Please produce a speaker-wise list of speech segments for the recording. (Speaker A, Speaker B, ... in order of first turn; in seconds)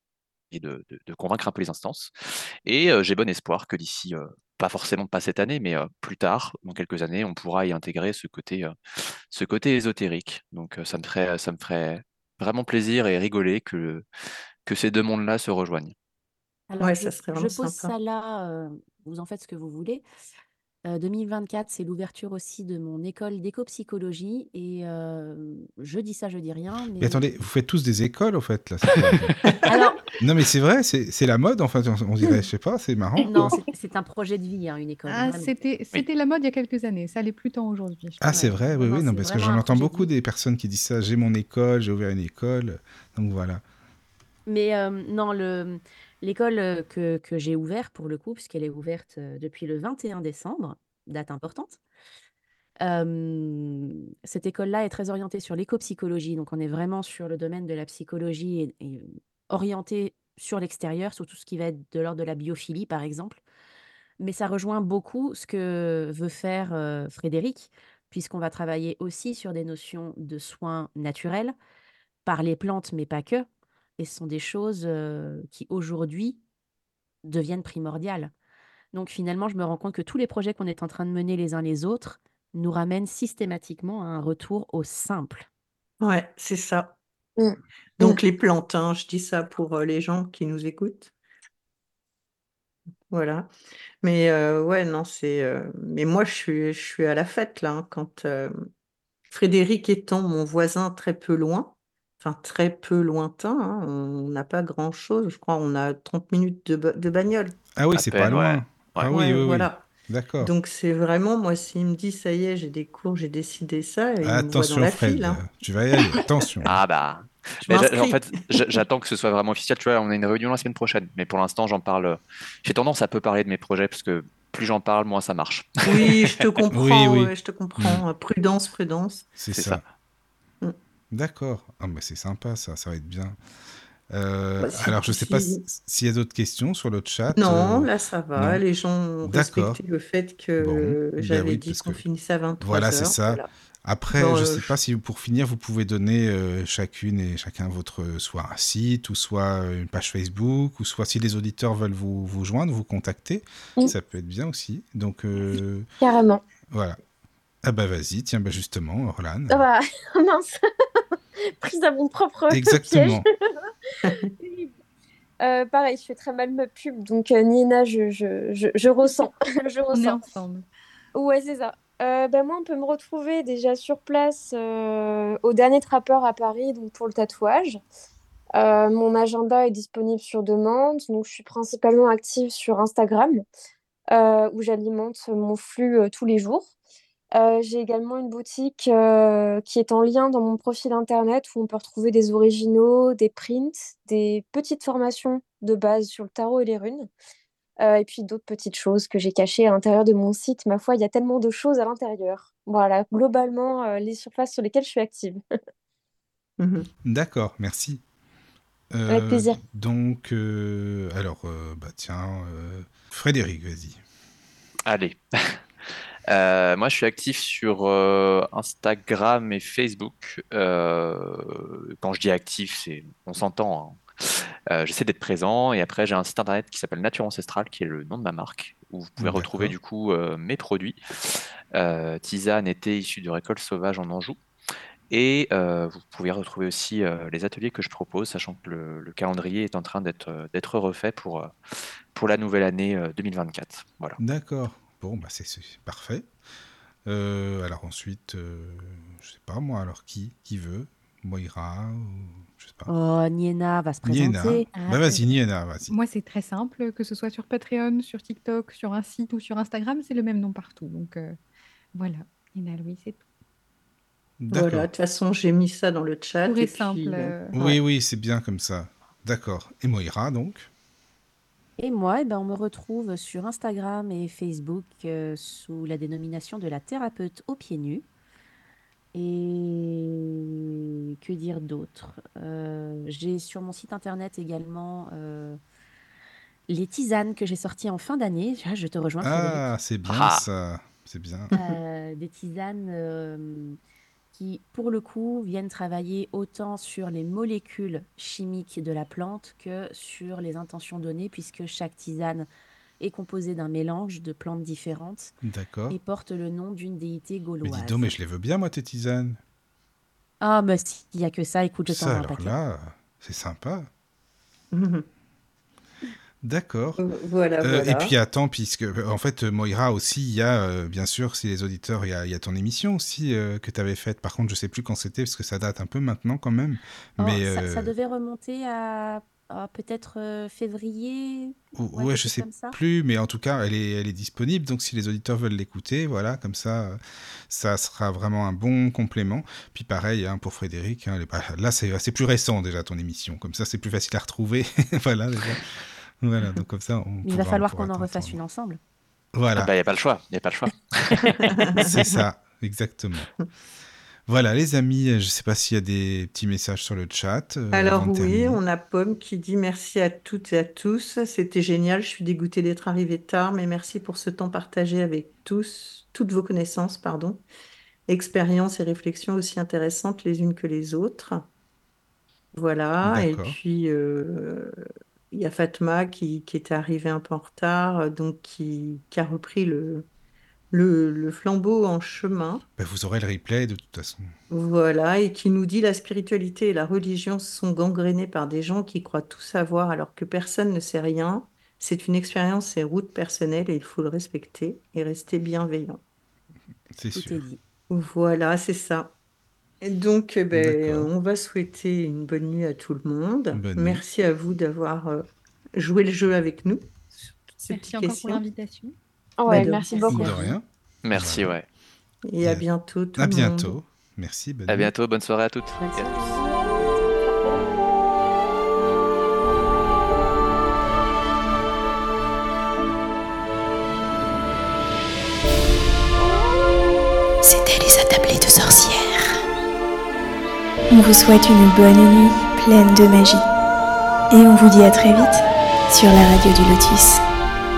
Speaker A: 0.5-2.1, 2.6-14.1, 14.7-15.9, 108.0-109.1, 116.7-126.3, 129.5-129.8, 214.9-231.0, 231.7-234.4, 235.1-241.5, 242.1-244.2, 290.1-290.4, 349.6-351.4, 411.0-411.7, 414.7-416.3
Speaker B: 16.7-20.0, 20.9-27.4, 29.6-30.0, 33.2-35.5, 38.3-40.1, 44.5-51.8, 52.8-63.4, 64.2-71.5, 72.2-73.5, 74.0-76.4, 77.2-78.3, 78.9-85.5, 252.9-254.7, 271.8-278.1, 279.1-280.6, 281.2-285.6, 286.7-289.6, 291.5-293.8, 294.3-302.5, 303.0-305.3, 305.9-308.1, 310.4-312.6, 327.2-332.8, 347.2-348.8, 397.1-397.6, 409.5-410.6, 415.8-417.0
Speaker C: 16.8-17.9, 86.0-87.0, 88.0-91.1, 93.1-93.5, 94.0-98.5, 99.3-107.6, 109.1-109.9, 110.4-115.5, 117.7-118.4, 125.8-129.3, 134.6-135.6, 137.3-143.4, 144.1-144.8, 164.0-164.3, 206.6-206.9, 264.5-267.4, 314.7-315.1, 317.0-318.1, 351.4-352.0, 357.7-367.4, 368.1-371.5, 372.5-374.8, 375.3-380.1, 380.7-382.6, 384.5-396.0, 397.9-399.1, 399.8-408.4, 409.5-409.9, 412.3-413.8
Speaker D: 27.0-29.3, 30.2-33.6, 38.2-43.6, 107.8-110.5, 114.2-116.8, 126.7-128.0, 129.4-129.8, 131.1-133.4, 134.1-138.6, 139.2-139.8, 140.6-142.0, 142.6-155.9, 156.7-157.0, 157.6-159.7, 162.5-163.2, 207.1-208.0, 208.9-214.0, 229.2-229.8, 244.2-246.3, 247.1-252.9, 254.0-255.9, 264.4-264.9, 267.5-270.7, 289.2-291.5, 305.4-306.0, 307.6-309.4, 311.9-313.9, 316.4-317.0, 317.6-327.9, 331.8-348.4, 349.3-349.7, 351.8-353.3, 354.3-358.6, 373.0-373.6, 382.8-384.3, 396.9-397.4, 400.5-401.1, 403.5-404.0, 410.1-411.6, 412.4-414.9
Speaker E: 33.2-33.6, 87.4-88.2, 156.0-156.4, 159.5-163.7, 164.4-164.7, 165.4-170.2, 171.1-177.8, 178.5-183.4, 184.1-186.7, 187.3-197.1, 197.8-205.4, 209.1-209.6, 409.4-410.3, 415.8-416.7
Speaker F: 35.1-38.8, 169.9-170.7, 254.7-255.4, 255.9-261.4, 261.9-263.2, 266.4-267.6, 407.7-408.9
Speaker G: 427.4-429.4, 430.9-433.4, 434.3-437.2